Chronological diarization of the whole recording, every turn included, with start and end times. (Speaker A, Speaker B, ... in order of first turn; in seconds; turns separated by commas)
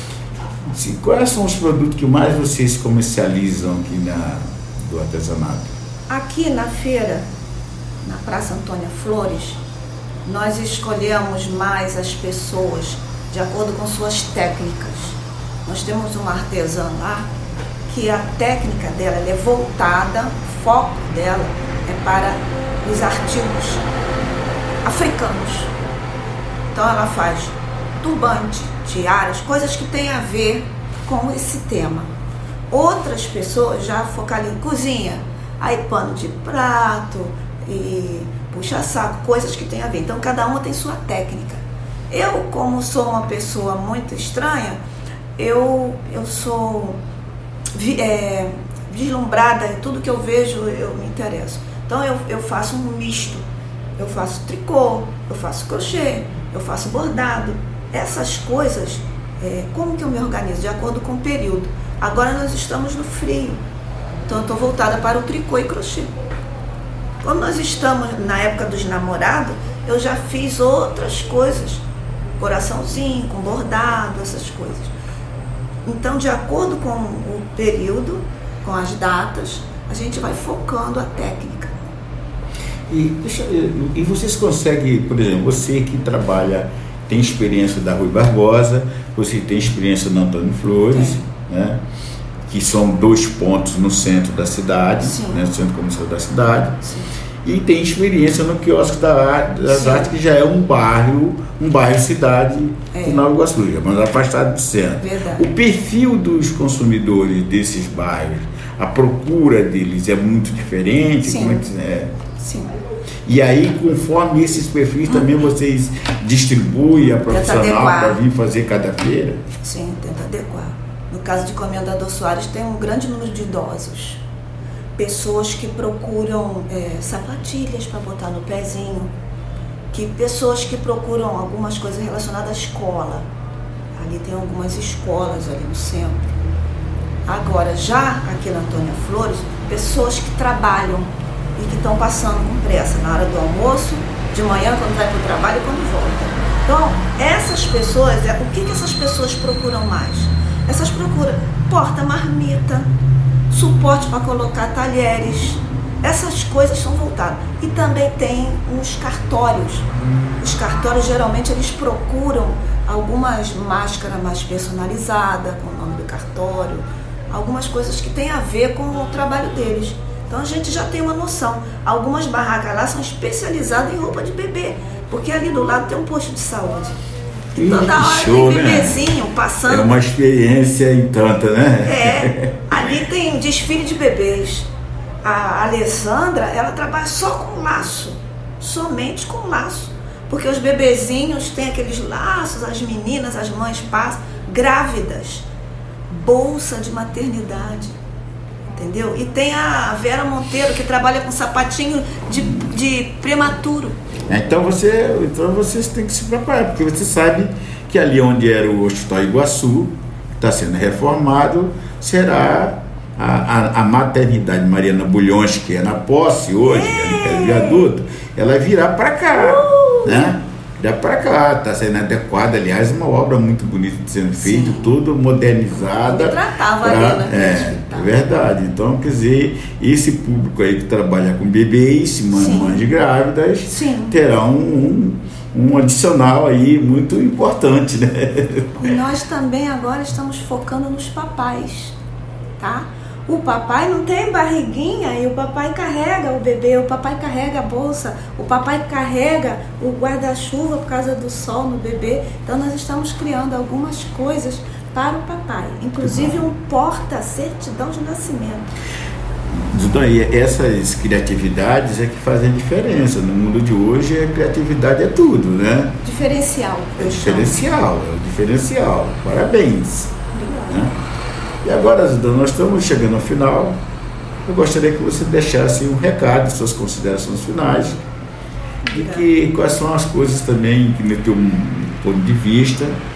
Speaker A: 0.7-5.8, Speaker B: 6.1-7.3, Speaker B: 8.0-9.6, Speaker B: 10.2-17.3, Speaker B: 17.9-23.9, Speaker B: 24.8-25.7, Speaker B: 26.7-32.1, Speaker B: 32.7-44.8, Speaker B: 45.4-47.0, Speaker B: 47.7-53.4, Speaker B: 54.0-63.6, Speaker B: 64.3-66.1, Speaker B: 67.2-71.8, Speaker B: 72.4-74.9, Speaker B: 75.8-81.9, Speaker A: 82.9-91.8, Speaker B: 90.9-91.2, Speaker A: 92.5-96.8, Speaker B: 95.0-95.4, Speaker B: 96.8-97.1, Speaker A: 97.4-112.1, Speaker B: 99.7-100.1, Speaker B: 102.9-103.2, Speaker B: 105.0-105.5, Speaker B: 111.2-111.7, Speaker B: 112.4-112.7, Speaker A: 113.2-119.4, Speaker B: 117.3-118.2, Speaker B: 119.6-124.2, Speaker B: 125.0-129.1, Speaker B: 129.9-133.3, Speaker B: 133.9-136.2, Speaker B: 137.2-152.9, Speaker B: 153.5-159.9, Speaker B: 160.4-177.0, Speaker A: 177.5-179.0, Speaker B: 177.5-179.9, Speaker A: 179.7-183.0, Speaker B: 181.8-184.7, Speaker B: 185.2-195.4, Speaker B: 196.1-198.0, Speaker B: 198.7-204.0, Speaker A: 204.3-238.9, Speaker B: 216.6-217.9, Speaker B: 219.3-220.3, Speaker B: 224.4-224.9, Speaker B: 226.1-228.1, Speaker B: 232.3-232.8, Speaker B: 233.7-234.2, Speaker B: 238.8-241.9, Speaker B: 242.6-258.7, Speaker A: 256.0-256.5, Speaker A: 259.5-266.0, Speaker B: 266.0-267.7, Speaker A: 267.0-270.1, Speaker B: 270.3-270.9, Speaker A: 270.7-270.9, Speaker A: 271.6-273.8, Speaker A: 274.4-278.0, Speaker B: 278.8-279.3, Speaker A: 278.9-283.0